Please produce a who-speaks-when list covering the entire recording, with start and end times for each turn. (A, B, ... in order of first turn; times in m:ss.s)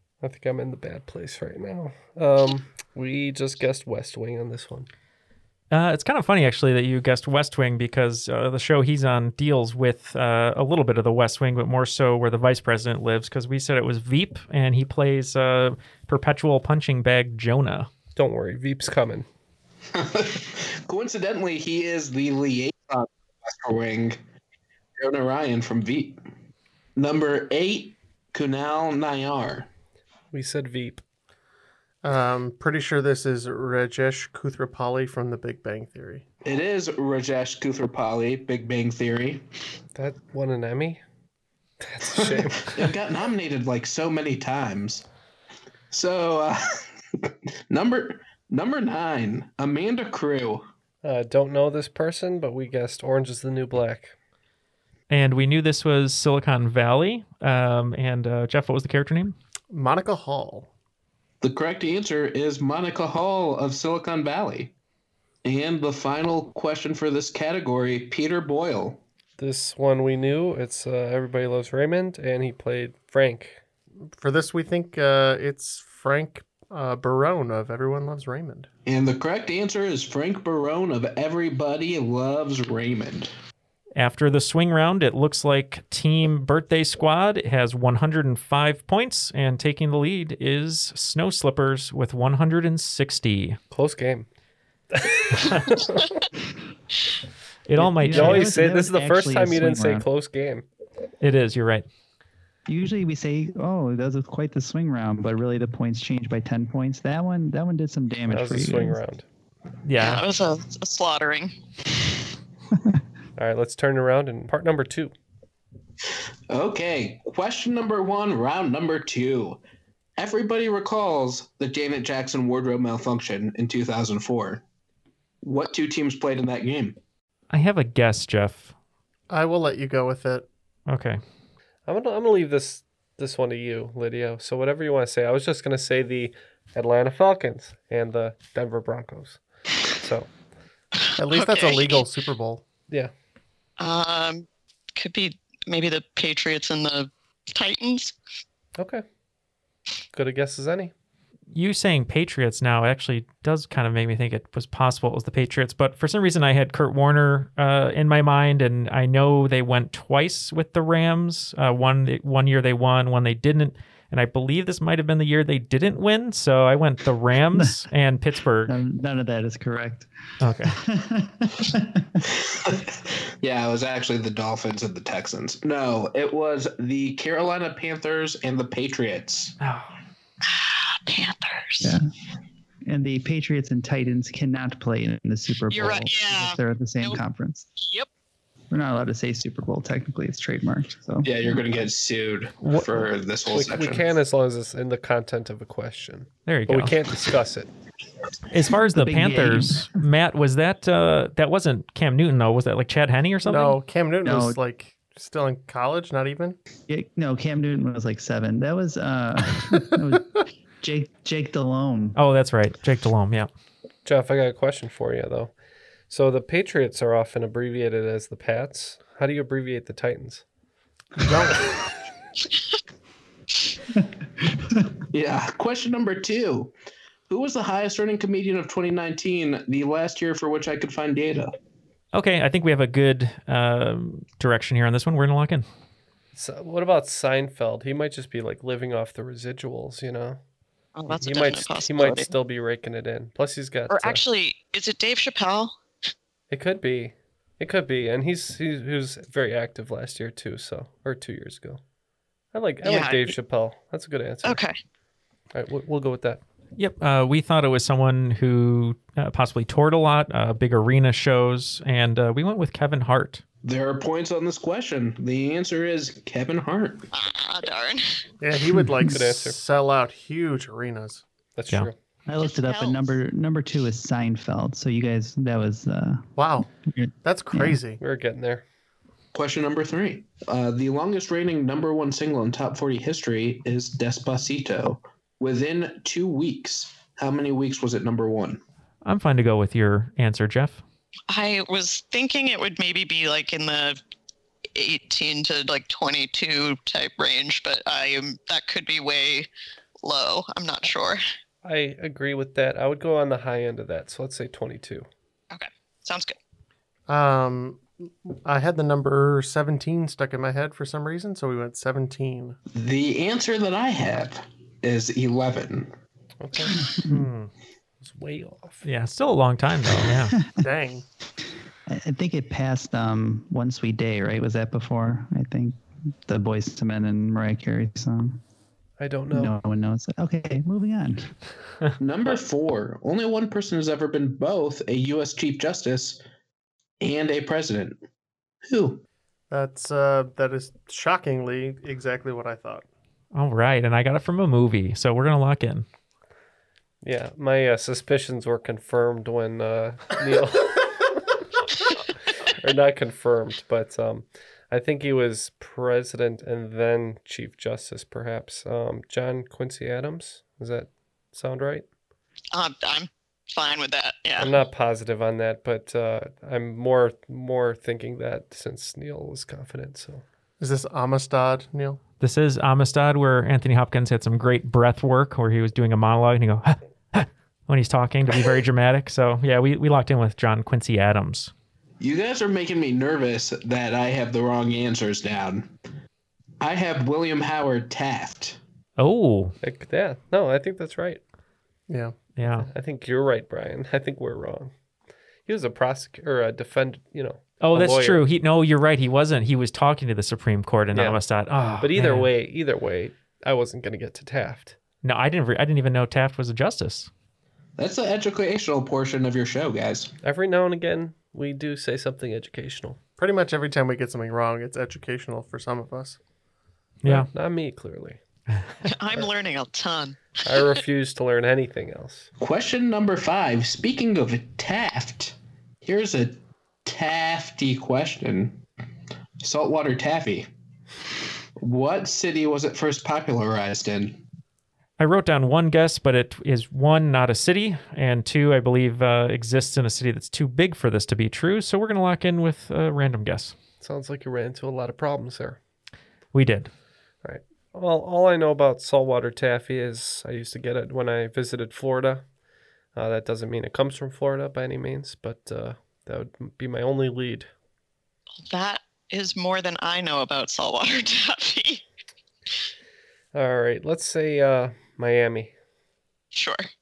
0:00.2-0:04.9 A
0:05.7-0:17.9 B
0:18.2-0:19.3 A
0:19.9-0:24.2 C
0:25.0-0:26.2 C
0:27.0-0:29.7 C
0:30.3-0:31.0 A
0:32.0-0:36.2 D
0:36.4-0:39.4 C
0:40.0-0:41.0 A
0:41.8-0:42.9 A
0:42.1-0:45.0 C
0:45.9-0:50.7 C
0:51.0-0:54.2 A
0:55.1-0:59.4 B
0:59.7-1:00.7 D
1:01.4-1:04.7 C
1:05.4-1:09.0 C
1:09.4-1:13.6 A
1:14.2-1:18.7 D
1:18.9-1:23.3 C
1:24.0-1:33.6 B
1:33.7-1:34.3 A
1:34.9-1:36.0 A
1:37.7-1:38.5 B
1:37.8-1:40.1 E
1:38.0-1:40.7 A
1:41.2-1:41.9 B
1:42.7-1:49.0 E
1:48.3-1:49.2 A
1:49.8-1:50.2 B
1:50.0-1:51.5 F
1:53.4-1:55.1 A
1:56.5-1:59.6 C
2:00.2-2:04.6 C
2:05.4-2:07.0 C
2:07.5-2:08.7 B
2:09.3-2:10.5 D
2:10.9-2:11.2 B
2:11.9-2:19.4 A
2:19.9-2:20.3 A
2:21.0-2:22.0 F
2:21.2-2:22.6 D
2:23.8-2:28.2 F
2:28.8-2:29.0 A
2:30.1-2:30.9 A
2:31.5-2:48.7 B
2:47.6-2:47.8 E
2:48.7-2:50.1 E
2:50.4-2:50.8 B
2:50.7-2:52.0 E
2:52.4-2:59.5 C
2:59.6-2:59.9 B
3:00.5-3:01.9 F
3:01.8-3:02.1 E
3:02.9-3:07.7 E
3:05.7-3:07.2 F
3:07.8-3:08.1 F
3:08.7-3:11.6 E
3:11.2-3:14.1 C
3:12.6-3:13.0 B
3:13.5-3:17.7 A
3:16.5-3:16.9 B
3:18.5-3:23.8 B
3:18.9-3:19.9 E
3:23.4-3:26.6 D
3:24.2-3:24.6 E
3:26.9-3:32.2 E
3:32.2-3:33.5 B
3:34.0-3:35.5 A
3:36.1-3:40.4 A
3:41.2-3:41.7 D
3:45.1-3:46.7 C
3:47.3-3:51.5 C
3:52.1-3:55.7 B
3:56.4-4:00.4 A
4:01.0-4:02.3 F
4:01.1-4:04.2 A
4:03.9-4:05.8 F
4:06.5-4:11.8 A
4:12.5-4:14.6 A
4:12.8-4:13.4 F
4:14.4-4:14.8 F
4:15.5-4:16.4 A
4:16.8-4:23.4 B
4:23.6-4:27.1 C
4:27.1-4:28.2 F
4:28.4-4:31.2 D
4:29.1-4:29.6 A
4:31.6-4:31.9 A
4:32.3-4:36.2 E
4:32.4-4:33.1 F
4:36.4-4:36.7 D
4:36.8-4:37.8 E
4:37.2-4:38.0 D
4:38.0-4:38.6 A
4:39.3-4:48.6 C
4:49.0-4:50.8 B
4:51.3-4:54.0 F
4:54.8-4:59.5 F
5:00.0-5:01.2 F
5:01.6-5:05.1 A
5:05.5-5:06.4 F
5:07.1-5:12.6 D
5:12.7-5:15.9 C
5:16.4-5:16.7 A
5:16.7-5:17.3 E
5:17.1-5:17.5 B
5:18.0-5:18.8 A
5:18.8-5:20.3 B
5:20.6-5:21.0 D
5:21.9-5:28.4 E
5:29.0-5:29.6 A
5:29.3-5:31.3 E
5:32.0-5:36.2 C
5:37.0-5:38.0 C
5:38.6-5:39.0 C
5:39.5-5:42.8 D
5:43.3-5:45.9 B
5:47.0-5:51.1 A
5:52.5-6:01.9 A
6:02.5-6:04.6 F
6:04.4-6:10.2 A
6:10.6-6:12.0 D
6:12.2-6:21.5 B
6:22.0-6:25.7 C
6:26.6-6:28.6 C
6:29.0-6:29.5 B
6:29.6-6:31.2 A
6:31.9-6:32.2 D
6:32.4-6:32.7 B
6:32.6-6:34.7 A
6:35.5-6:38.2 A
6:37.6-6:42.3 B
6:40.9-6:41.2 A
6:41.8-6:44.8 A
6:45.0-6:47.1 B
6:47.8-6:50.1 C
6:50.2-6:53.0 A
6:53.2-6:56.2 D
6:57.0-6:57.3 B
6:57.0-6:58.2 A
6:58.8-7:00.8 F
7:00.4-7:02.3 A
7:02.4-7:08.6 C
7:09.4-7:10.5 C
7:11.6-7:14.2 C
7:15.0-7:23.6 B
7:23.8-7:25.6 A
7:26.3-7:26.7 B
7:27.2-7:32.2 A
7:33.0-7:37.5 A
7:38.5-7:41.8 F
7:43.3-7:45.5 A
7:46.3-7:46.6 F